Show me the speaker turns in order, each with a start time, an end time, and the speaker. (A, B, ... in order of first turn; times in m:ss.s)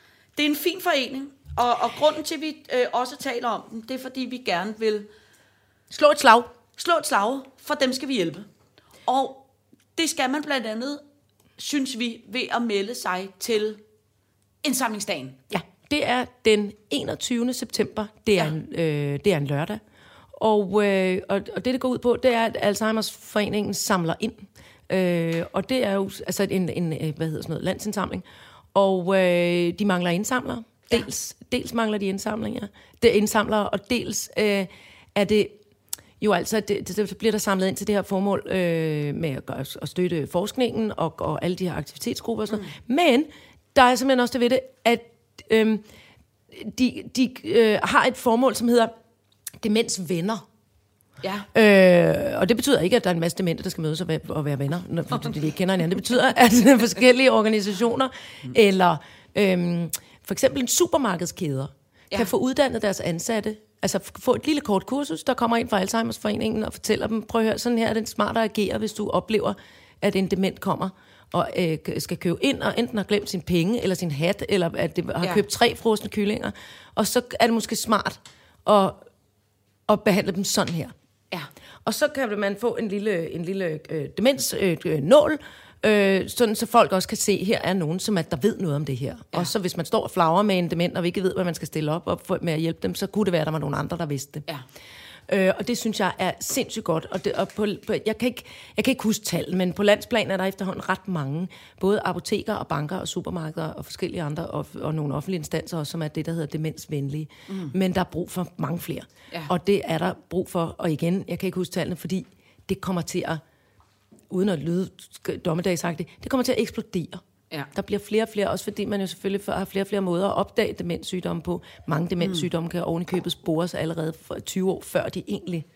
0:00.4-0:05.1 A
0:05.9-0:06.5 B
0:06.8-0:08.5 A
0:09.0-0:11.0 A
0:11.6-0:13.8 A
0:14.6-0:15.4 A
0:15.5-0:19.8 B
0:20.4-0:35.6 B
0:36.2-0:45.8 B
0:42.5-0:42.7 A
0:46.5-0:48.9 B
0:49.6-0:50.4 B
0:51.2-0:51.5 A
0:51.5-1:19.0 B
1:19.9-1:20.9 B
1:21.8-1:34.4 B
1:35.3-1:53.4 B
1:47.5-1:47.7 A
1:54.3-2:05.7 B